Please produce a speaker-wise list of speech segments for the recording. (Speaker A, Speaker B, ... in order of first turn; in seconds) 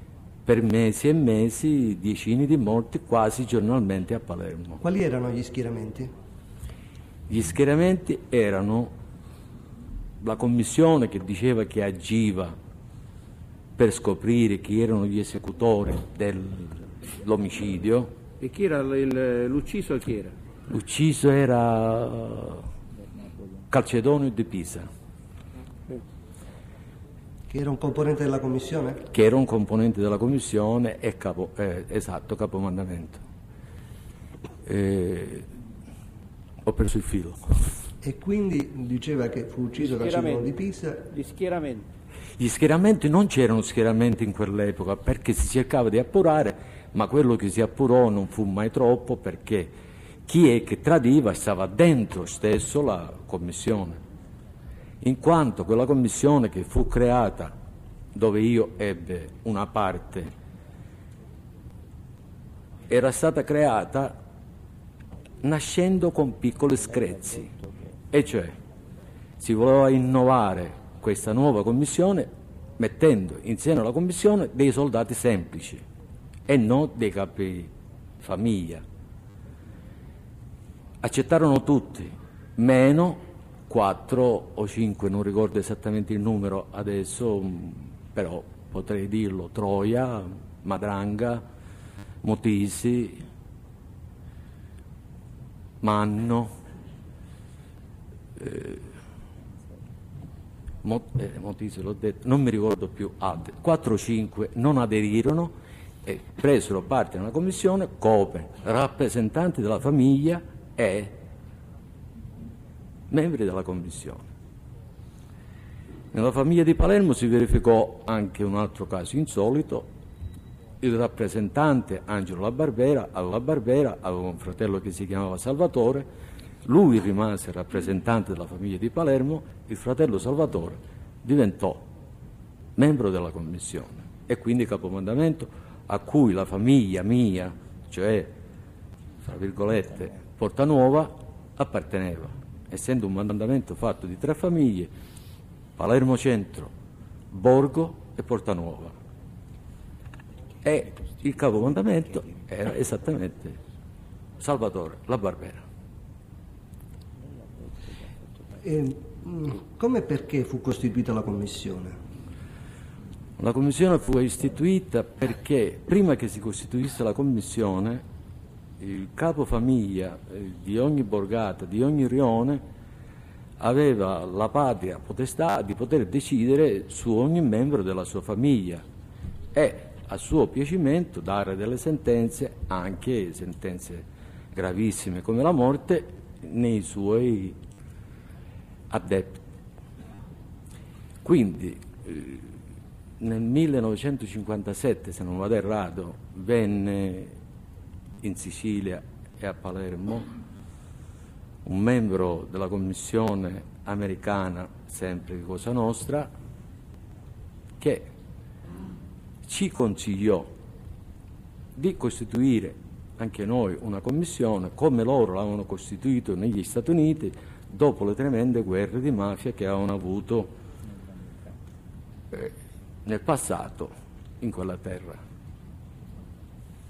Speaker A: 0.5-4.8, 7.3-8.9, 10.2-12.5, 13.8-18.1, 20.7-22.6, 23.7-24.9, 29.1-33.2, 34.6-35.5, 36.6-37.5, 42.4-49.7, 50.2-54.0, 55.0-57.5, 58.1-60.3, 62.9-64.2, 65.4-67.6, 68.1-68.5, 69.4-75.8, 76.5-78.8, 81.0-91.4, 92.2-93.2, 95.8-96.5, 98.4-98.9, 100.8-105.5, 106.0-111.1, 113.1-114.3, 116.1-119.8, 120.8-126.1, 126.6-131.8, 132.8-138.3, 139.2-144.9, 145.8-146.7, 147.3-148.9, 150.6-153.6, 154.4-155.6, 163.4-168.0, 168.8-172.6, 173.6-178.8, 179.5-187.6, 188.9-189.4, 191.2-192.5, 193.2-197.3, 198.2-200.3, 201.6-206.3, 207.8-208.1, 209.4-210.5, 211.8-220.5, 223.1-225.2
Speaker B: 4.8-6.1, 27.5-29.0, 38.0-41.0, 158.6-161.9
Speaker C: 18.4-20.4, 39.8-40.5, 41.1-41.9